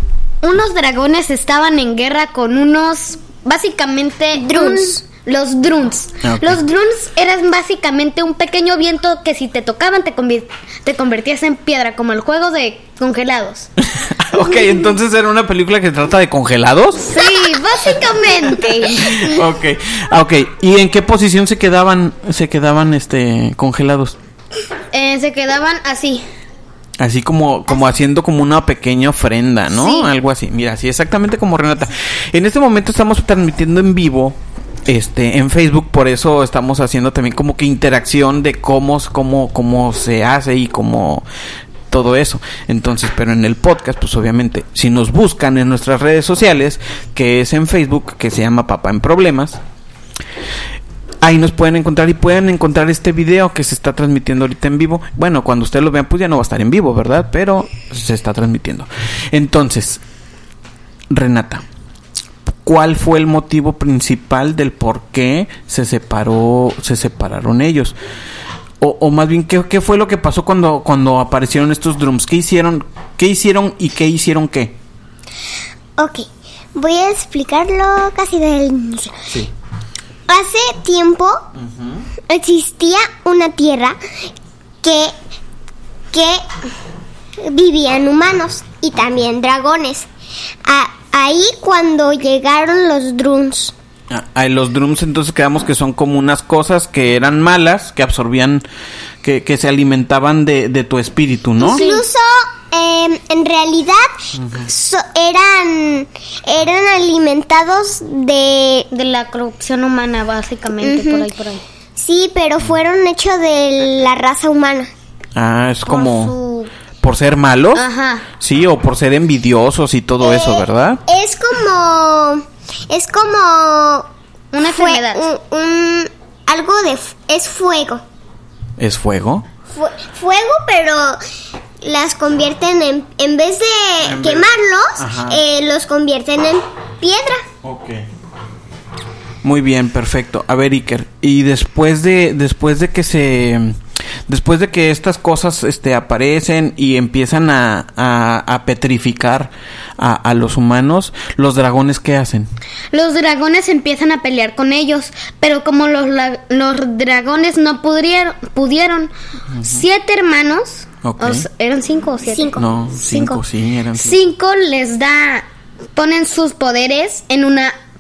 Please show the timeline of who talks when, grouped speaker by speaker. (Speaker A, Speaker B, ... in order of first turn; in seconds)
Speaker A: 0.4-13.7, 17.1-19.4, 24.9-26.2, 29.7-30.1, 101.6-102.0, 108.9-111.6, 115.8-116.7, 117.7-118.3, 124.5-125.3, 152.9-159.1, 159.6-163.4, 164.0-167.8
Speaker B: 4.3-5.0, 76.0-79.2, 80.3-81.4, 82.3-84.0, 84.8-85.1, 86.1-86.4, 87.4-90.1, 90.7-93.7, 101.6-104.1, 104.6-108.9, 110.8-111.2, 112.0-114.9, 120.2-124.1, 124.6-128.0, 129.7-131.2, 131.8-137.5, 162.3-162.7
Speaker C: 6.2-6.6, 13.8-24.2, 27.0-41.2, 41.9-49.6, 51.2-60.0, 61.1-61.6, 62.6-68.0, 68.8-74.8, 81.5-82.1, 94.1-98.7, 99.2-101.8, 104.3-104.7, 115.3-116.3, 117.0-117.8, 118.4-121.0, 128.8-129.5, 134.0-135.4, 137.6-138.1, 139.4-152.5, 159.5-159.8, 161.0-161.5, 162.6-164.2